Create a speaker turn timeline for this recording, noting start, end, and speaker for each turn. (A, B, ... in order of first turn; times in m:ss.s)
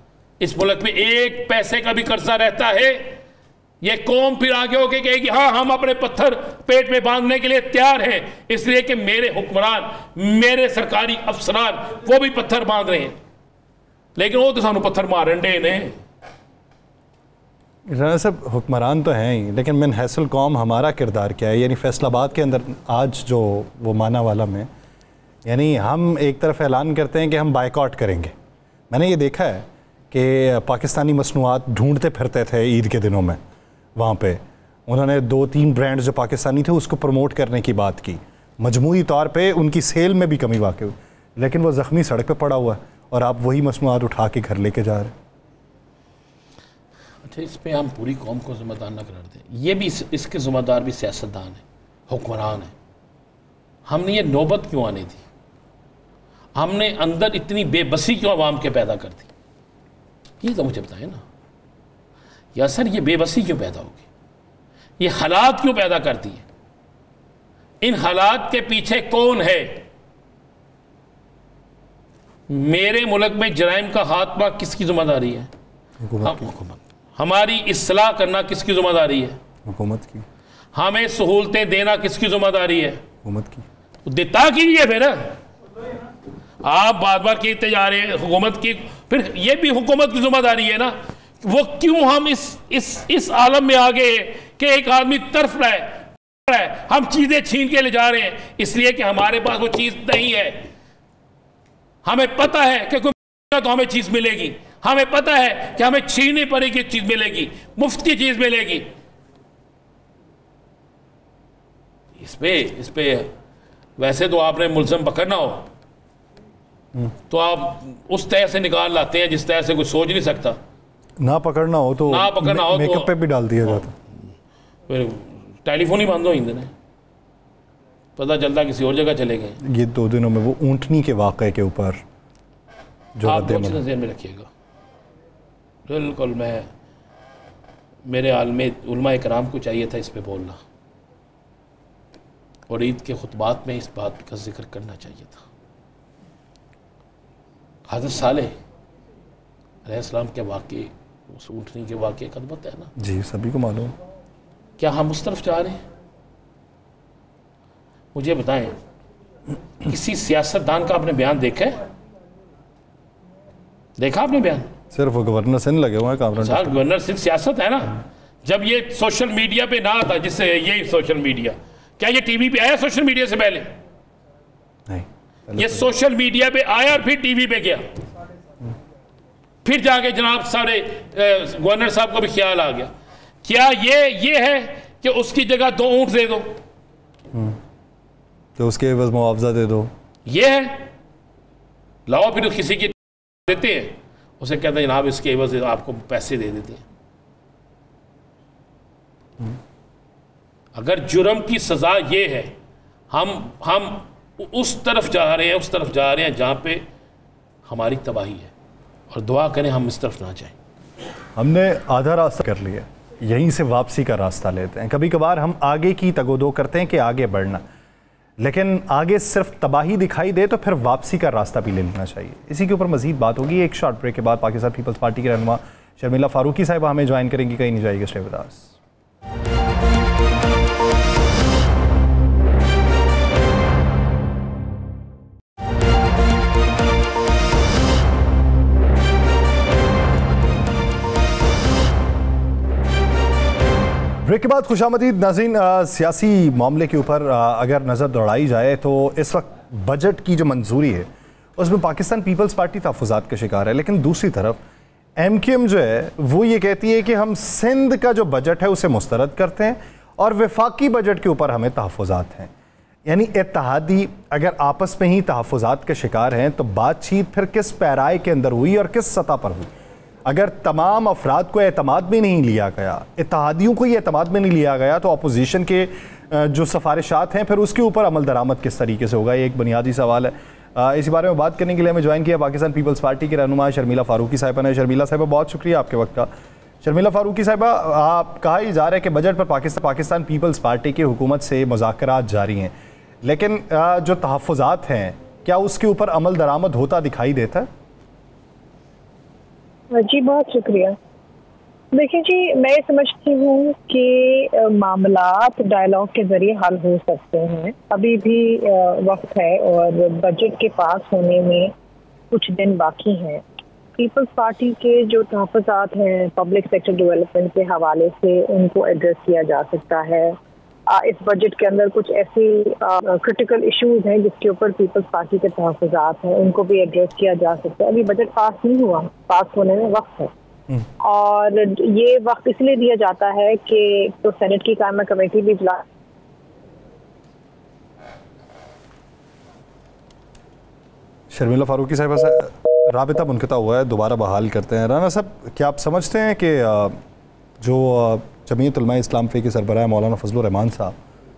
0:00.4-0:03.2 A
0:03.8-0:13.2 A
0:14.2-0:16.0 A
0:17.9-0:24.7 B
0:25.4-0:28.3 B
0:28.9-0:33.4 B
0:34.0-0:45.1 B
0:47.2-0:52.7 A
0:53.9-0:55.2 A
0:56.6-0:59.3 A
1:00.4-1:01.2 A
1:02.5-1:04.0 A
1:05.0-1:06.4 A
1:07.8-1:09.8 A
1:12.5-1:15.5 A
1:16.0-1:16.5 B
1:16.2-1:19.4 A
1:19.6-1:20.2 B
1:20.7-1:23.0 A
1:23.2-1:23.6 B
1:24.0-1:25.4 A
1:26.6-1:40.7 A
1:42.0-1:48.9 A
1:52.2-1:53.3 A
1:54.0-1:55.7 A
1:57.3-2:00.6 A
2:01.2-2:03.9 B
2:02.1-2:03.1 A
2:04.9-2:06.7 A
2:08.2-2:09.6 A
2:09.6-2:12.0 B
2:13.2-2:13.8 B
2:13.2-2:14.5 A
2:15.9-2:16.7 A
2:18.0-2:20.6 A
2:22.7-2:25.4 A
2:27.9-2:28.6 A
2:29.8-2:32.9 A
2:33.0-2:33.9 B
2:34.8-2:35.8 A
2:38.1-2:38.8 A
2:39.8-2:41.8 A
2:44.0-2:44.7 A
2:44.9-2:46.8 B
2:46.4-2:53.8 A
2:54.9-2:55.8 B
2:55.5-2:57.8 A
2:59.6-3:02.9 A
3:03.4-3:06.6 A
3:08.6-3:09.9 B
3:10.2-3:10.9 A
3:12.1-3:16.8 A
3:20.7-3:22.5 A
3:23.1-3:26.8 A
3:27.6-3:28.5 A
3:29.1-3:30.6 A
3:31.3-3:37.6 B
3:38.4-3:48.7 B
4:04.2-4:14.6 B
4:15.2-4:22.5 B
4:23.0-4:29.7 B
4:30.3-4:46.3 B
4:46.8-4:57.7 B
4:59.9-5:01.0 C
5:01.9-5:11.7 C
5:12.3-5:13.4 C
5:14.0-5:20.4 C
5:20.9-5:30.3 C
5:31.0-5:35.8 C
5:41.3-5:47.0 B
5:47.6-5:50.9 B